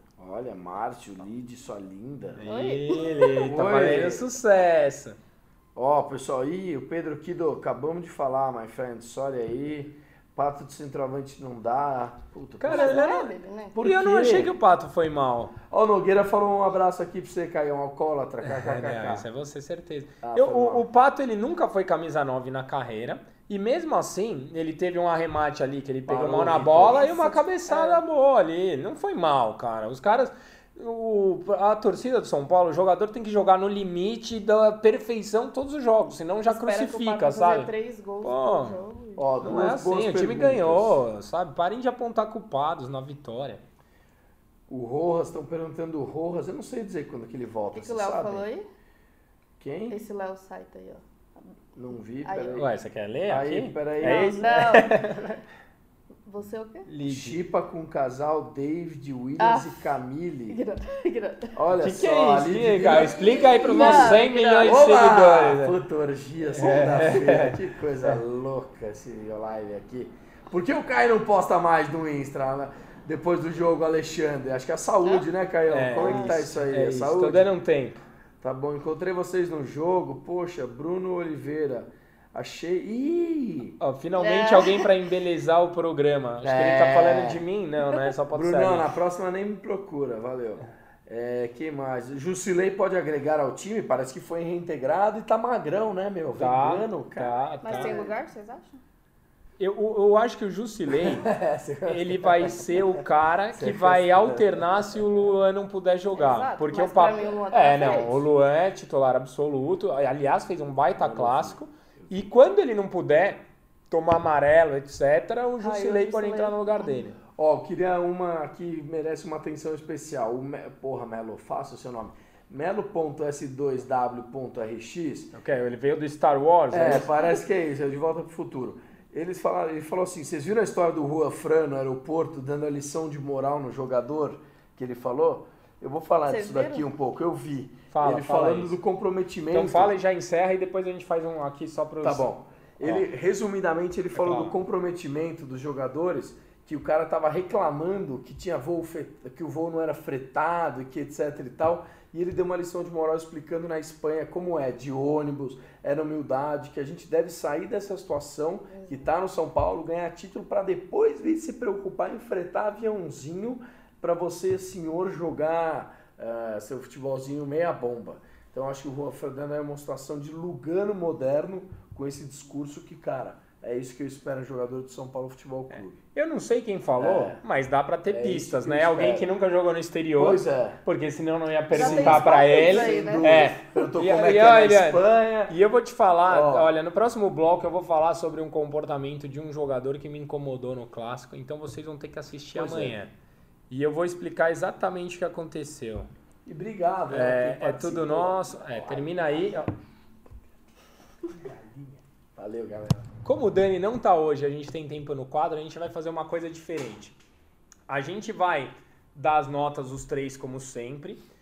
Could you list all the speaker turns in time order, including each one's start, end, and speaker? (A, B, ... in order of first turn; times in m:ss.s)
0:00.2-0:02.4 A
0:02.4-0:05.2 B
0:02.5-0:03.4 C
0:03.4-0:04.3 A
0:05.7-0:13.0 A
0:12.6-0:15.5 B
0:12.7-0:13.8 C
0:13.7-0:14.5 A
0:15.7-0:19.3 A
0:18.4-0:37.7 B
0:20.2-0:20.8 A
0:26.1-0:27.0 A
0:26.9-0:28.0 C
0:36.5-0:39.3 C
0:38.2-0:38.8 B
0:39.2-0:41.0 A
0:39.4-0:43.6 B
0:44.7-0:48.5 A
0:47.7-0:48.6 C
0:49.6-0:50.0 A
0:49.9-0:51.0 C
0:51.8-0:52.7 A
0:52.2-0:52.6 C
0:52.5-0:55.4 B
0:53.3-0:54.4 A
0:54.0-0:55.3 C
0:56.2-0:56.9 C
0:56.8-0:57.4 B
0:57.0-1:00.6 A
0:59.4-0:59.8 C
1:00.5-1:01.6 C
1:01.5-1:17.5 A
1:01.8-1:05.8 B
1:02.9-1:04.8 C
1:06.5-1:08.2 B
1:15.7-1:18.0 B
1:15.9-1:16.4 C
1:18.4-1:23.8 A
1:23.8-1:28.9 B
1:24.2-1:24.9 C
1:26.4-1:27.4 A
1:28.3-1:38.2 A
1:36.3-1:38.0 B
1:37.6-1:38.8 C
1:39.6-1:41.3 B
1:40.9-1:45.0 A
1:41.8-1:57.2 B
1:46.1-1:48.2 C
1:51.0-1:52.1 A
1:55.6-1:57.1 C
1:57.3-2:05.3 A
2:05.3-2:07.1 B
2:06.7-2:19.9 A
2:16.3-2:16.8 C
2:17.9-2:18.8 B
2:19.5-2:22.3 B
2:22.0-2:56.0 A
2:22.8-2:23.1 B
2:24.1-2:24.5 B
2:38.7-2:39.0 C
2:55.7-3:13.1 B
2:57.0-2:57.4 A
2:58.1-2:59.3 A
3:00.2-3:00.8 A
3:01.7-3:05.5 A
3:01.7-3:03.3 C
3:06.3-3:06.7 A
3:12.5-3:13.0 A
3:13.7-3:16.1 B
3:16.4-3:19.7 A
3:17.1-3:19.7 B
3:21.3-3:23.1 A
3:23.2-3:27.2 B
3:27.9-3:31.2 B